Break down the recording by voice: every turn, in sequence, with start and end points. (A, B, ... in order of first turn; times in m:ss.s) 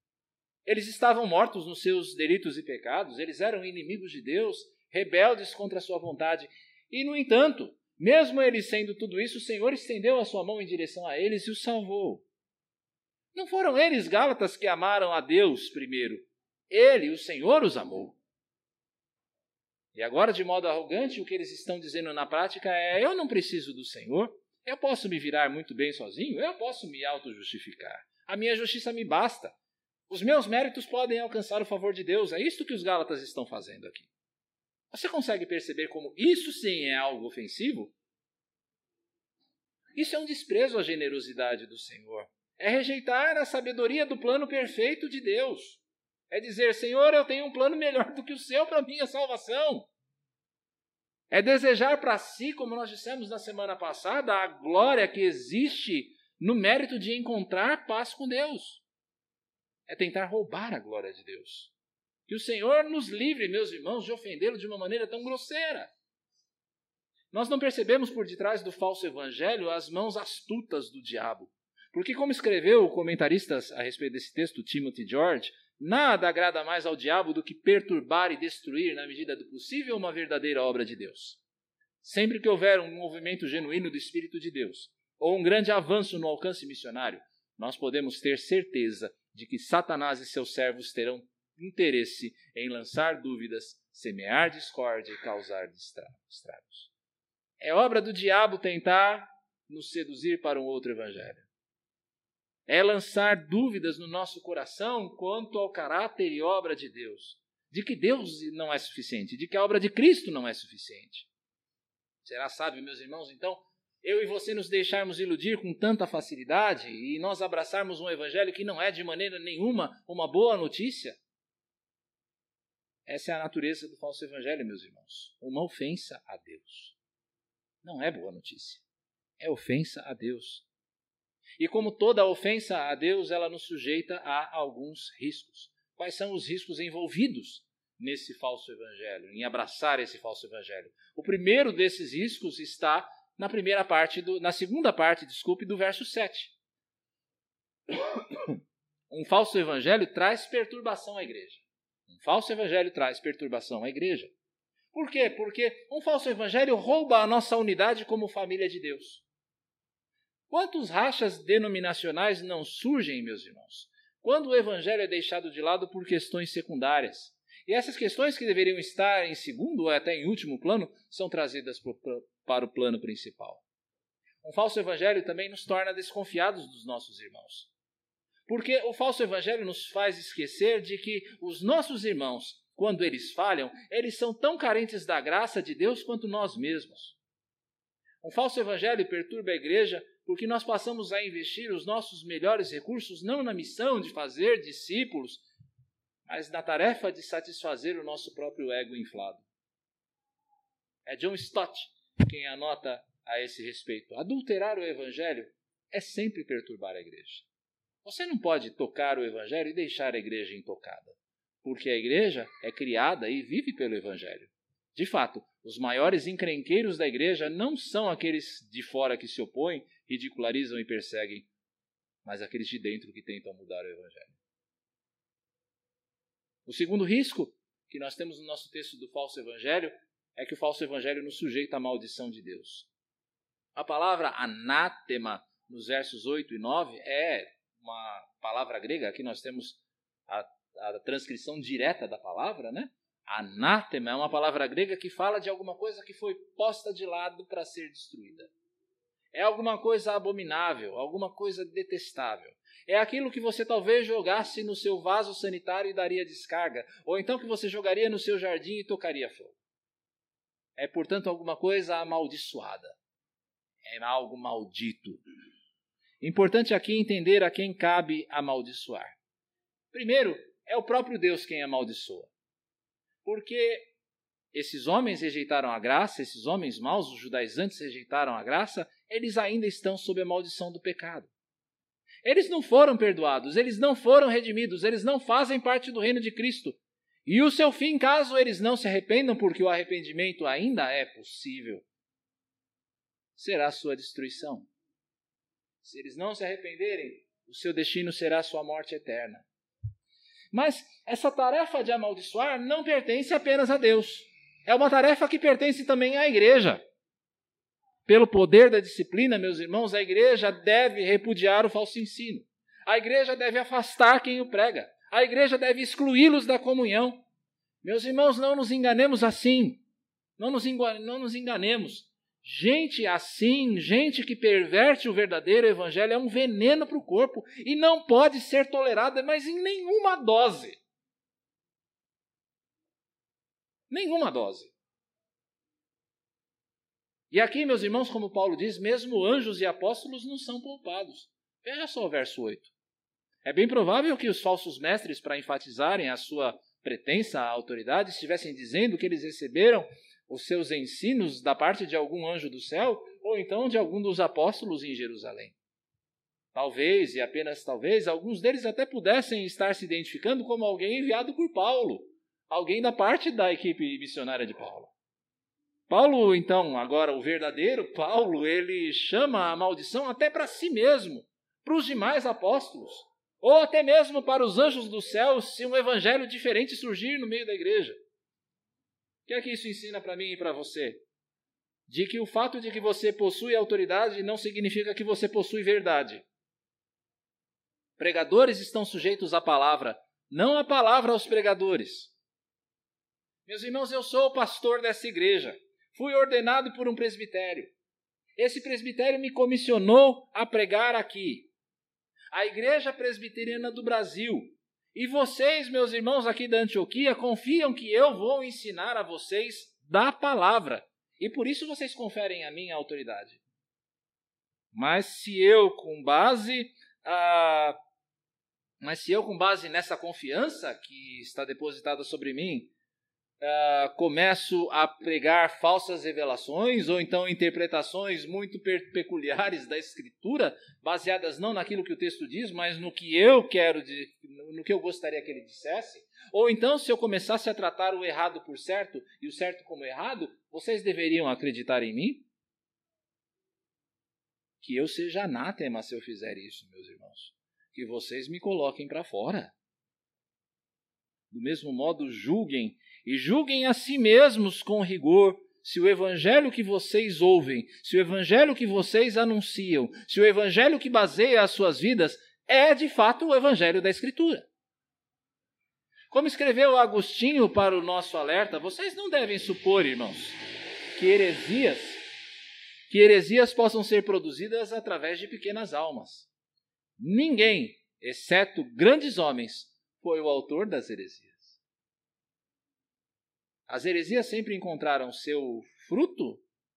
0:00.6-0:12.3 A
0:13.3-0:18.2 A
0:19.9-0:29.6 A
0:30.1-0:34.1 A
0:34.9-0:38.0 A
0:40.0-0:49.9 A
0:51.3-0:58.8 A
0:59.9-1:01.7 A
1:02.3-1:05.9 A
1:07.3-1:21.4 A
1:22.0-1:36.9 A
1:37.6-1:41.5 A
1:42.7-1:51.3 A
1:52.2-2:01.2 A
2:03.1-2:07.0 A
2:07.8-2:08.8 A
2:09.4-2:10.7 A
2:11.6-2:26.6 A
2:27.9-2:28.6 A
2:29.1-2:34.3 A
2:34.9-2:39.2 A
2:40.5-2:53.6 A
2:54.4-2:57.7 A
2:58.5-3:07.2 A
3:08.2-3:15.4 A
3:16.3-3:19.5 A
3:21.0-3:27.5 A
3:28.0-3:41.5 A
3:42.2-3:44.4 A
3:46.7-3:52.9 A
3:53.8-4:08.5 A
4:09.3-4:19.6 A
4:20.8-4:23.0 A
4:23.8-4:25.2 A
4:26.2-4:29.2 A
4:29.9-4:32.3 A
4:33.2-4:33.9 A
4:34.5-4:41.3 A
4:42.2-4:51.8 A
4:53.4-4:54.7 A
4:55.8-4:59.5 A
5:00.5-5:06.8 A
5:08.1-5:17.2 A
5:17.8-5:19.8 A
5:20.4-5:30.8 A
5:33.9-5:34.7 A
5:37.3-5:42.7 A
5:43.4-5:55.6 A
5:56.5-6:04.9 A
6:05.9-6:18.0 A
6:19.3-6:21.0 A
6:21.9-6:26.3 A
6:28.0-6:32.1 A
6:33.5-6:37.8 A
6:38.4-6:41.5 A
6:42.3-6:53.4 A
6:54.7-6:57.8 A
6:58.8-7:02.7 A
7:03.4-7:22.3 A
7:24.6-7:29.6 A
7:31.3-7:44.5 A
7:46.1-7:50.4 A
7:51.0-7:52.0 A
7:52.9-7:56.3 A
7:57.0-8:01.6 A
8:03.7-8:06.4 A